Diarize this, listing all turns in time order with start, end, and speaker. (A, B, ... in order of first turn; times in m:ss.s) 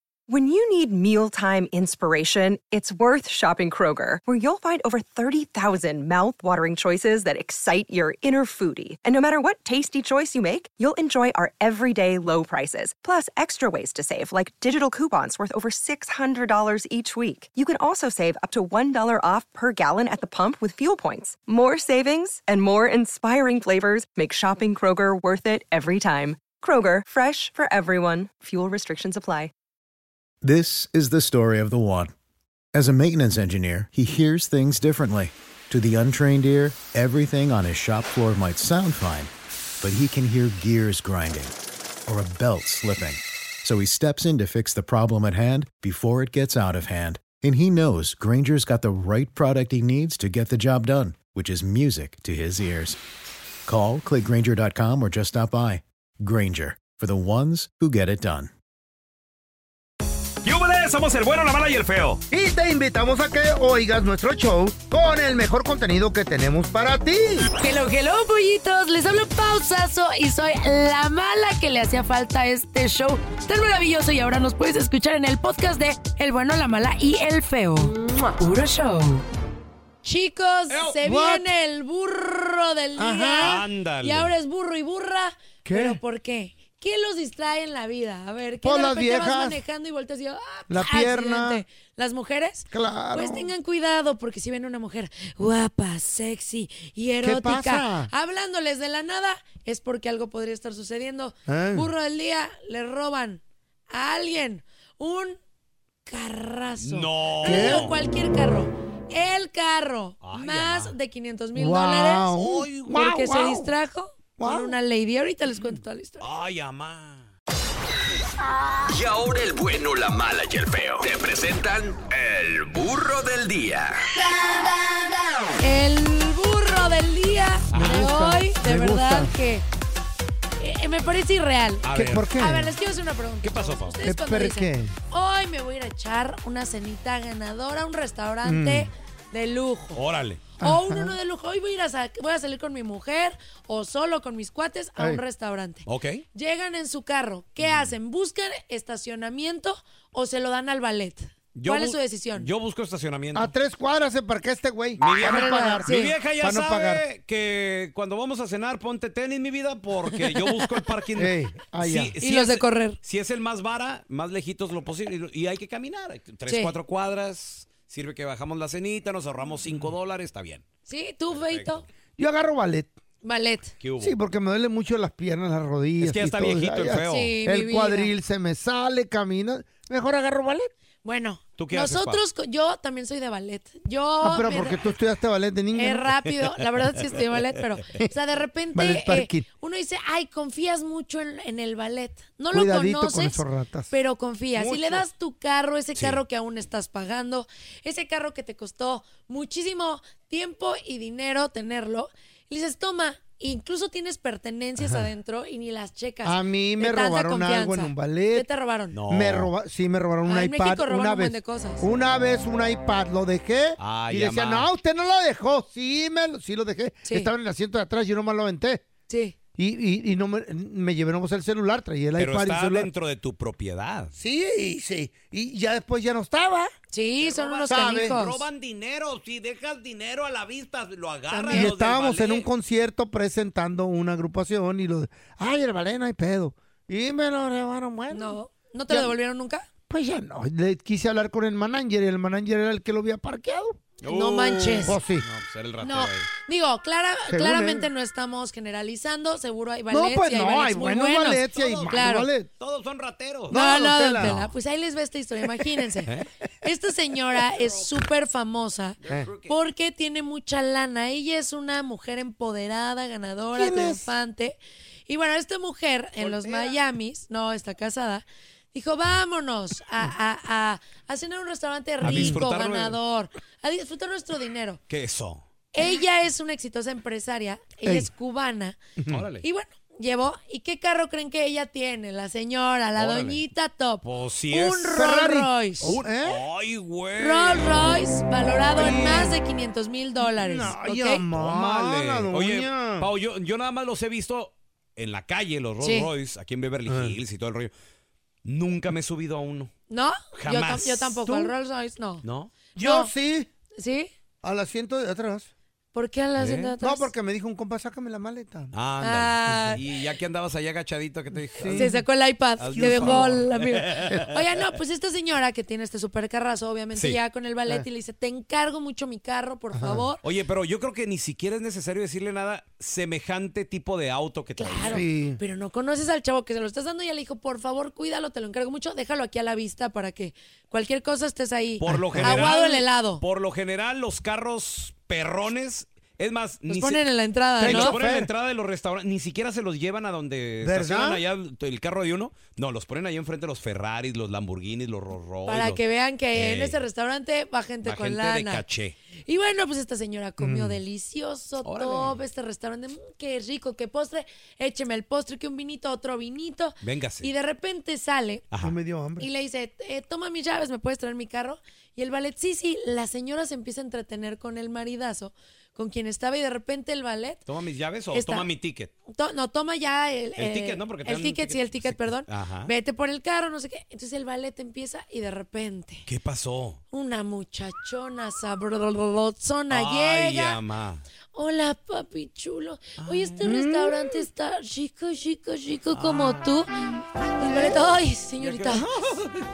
0:00.3-0:29.5 A
0:30.4-0:32.1 B
0:32.7-0:39.3 B
0:39.8-0:41.5 B
0:42.1-0:53.0 B
0:53.6-0:58.5 B
1:00.4-1:02.2 C
1:02.3-1:07.5 D
1:07.6-1:19.2 E
1:20.0-1:45.4 E
1:20.7-1:21.0 C
1:21.0-1:21.5 D
1:23.0-1:23.6 D
1:23.4-1:24.3 C
1:25.6-1:26.0 D
1:28.6-1:29.6 D
1:30.7-1:31.6 D
1:32.7-1:33.5 D
1:37.2-1:38.1 D
1:41.5-1:41.9 D
1:46.0-1:52.3 E
1:46.8-1:47.9 C
1:47.4-1:47.9 D
1:50.2-1:50.9 C
1:51.5-1:53.7 D
1:52.3-1:52.9 C
1:52.9-1:56.3 E
1:54.4-1:54.8 D
1:56.2-1:57.3 C
1:58.9-2:04.0 F
2:05.6-2:09.6 E
2:07.7-2:08.0 C
2:07.7-2:09.3 D
2:10.6-2:11.8 E
2:11.8-2:12.3 C
2:11.9-2:12.7 D
2:12.4-2:20.0 E
2:13.4-2:14.0 C
2:14.0-2:14.9 D
2:18.4-2:18.9 D
2:19.9-2:20.4 C
2:20.6-2:21.2 D
2:20.6-2:32.5 E
2:25.8-2:26.2 C
2:27.6-2:27.9 C
2:31.5-2:33.5 C
2:33.3-2:37.0 D
2:35.0-2:50.6 C
2:35.2-2:36.1 E
2:41.2-2:42.1 D
2:42.2-2:43.0 E
2:46.5-2:46.7 E
2:50.9-2:51.8 E
2:51.3-2:51.8 C
2:52.2-2:52.9 D
2:53.2-2:53.7 E
2:53.8-2:54.2 C
2:54.0-3:00.7 D
2:56.0-2:57.3 C
2:57.1-2:58.1 E
3:01.0-3:04.8 E
3:01.6-3:02.2 C
3:04.2-3:06.0 D
3:05.7-3:29.0 E
3:08.7-3:09.4 D
3:12.5-3:13.9 D
3:14.5-3:15.0 C
3:16.0-3:16.2 C
3:24.8-3:25.1 D
3:26.2-3:28.5 D
3:28.9-3:29.5 C
3:29.1-3:38.8 D
3:30.2-3:31.9 E
3:33.8-3:34.7 C
3:37.0-3:37.3 E
3:39.1-3:39.4 E
3:39.6-3:42.9 D
3:42.2-3:44.1 C
3:44.1-3:46.7 D
3:46.9-3:48.4 E
3:47.2-3:52.5 C
3:47.6-3:48.2 D
3:51.3-3:58.4 D
3:58.1-3:59.7 E
3:59.9-4:03.8 D
4:04.0-4:06.3 C
4:04.1-4:05.0 E
4:04.8-4:05.2 D
4:05.8-4:12.3 E
4:07.3-4:07.9 D
4:09.9-4:12.5 D
4:11.5-4:12.0 C
4:12.6-4:13.6 C
4:13.5-4:14.4 D
4:13.5-4:16.1 E
4:14.2-4:14.5 C
4:16.6-4:24.6 E
4:17.4-4:17.9 C
4:19.0-4:19.6 C
4:23.5-4:24.0 D
4:25.1-4:34.8 E
4:26.2-4:26.8 C
4:32.0-4:33.0 C
4:32.0-4:32.4 D
4:34.9-4:35.4 C
4:35.7-4:38.8 E
4:37.8-4:38.1 D
4:39.1-4:39.4 C
4:39.4-4:46.0 E
4:42.9-4:43.4 C
4:44.0-4:45.0 C
4:44.9-4:46.4 D
4:45.8-4:47.8 C
4:47.2-4:51.2 E
4:48.7-4:49.3 D
4:50.3-4:53.1 D
4:51.3-4:57.7 C
4:55.8-4:56.1 E
4:56.9-4:57.1 D
4:58.4-4:59.7 C
4:59.9-5:02.2 E
5:00.4-5:01.2 C
5:01.2-5:01.5 D
5:02.2-5:02.6 C
5:02.7-5:03.5 D
5:02.8-5:03.1 E
5:03.8-5:04.1 E
5:04.4-5:05.5 D
5:05.9-5:07.1 E
5:06.4-5:06.7 C
5:06.8-5:08.7 D
5:08.7-5:11.9 C
5:09.0-5:09.8 E
5:11.6-5:12.0 D
5:11.7-5:20.2 E
5:12.6-5:14.2 C
5:12.7-5:13.4 D
5:16.9-5:17.2 C
5:19.7-5:20.1 D
5:20.2-5:25.0 C
5:24.6-5:33.2 E
5:24.8-5:25.4 D
5:31.8-5:37.0 C
5:31.9-5:32.4 D
5:36.7-5:38.0 E
5:37.6-5:38.3 D
5:37.6-5:45.8 C
5:40.6-5:41.2 D
5:45.4-5:48.6 E
5:46.3-5:46.8 C
5:47.8-5:48.9 C
5:49.3-5:58.4 E
5:50.4-5:50.8 D
5:51.6-5:52.2 C
5:56.8-5:57.3 C
5:58.6-5:59.3 D
5:59.2-6:07.4 E
6:07.4-6:08.9 C
6:08.1-6:08.5 E
6:09.1-6:16.1 E
6:10.4-6:12.7 C
6:16.0-6:16.8 C
6:16.9-6:20.6 E
6:19.7-6:21.0 C
6:21.3-6:26.7 E
6:23.0-6:23.3 C
6:23.4-6:24.1 D
6:25.9-6:26.5 C
6:27.4-6:28.9 E
6:28.4-6:29.3 C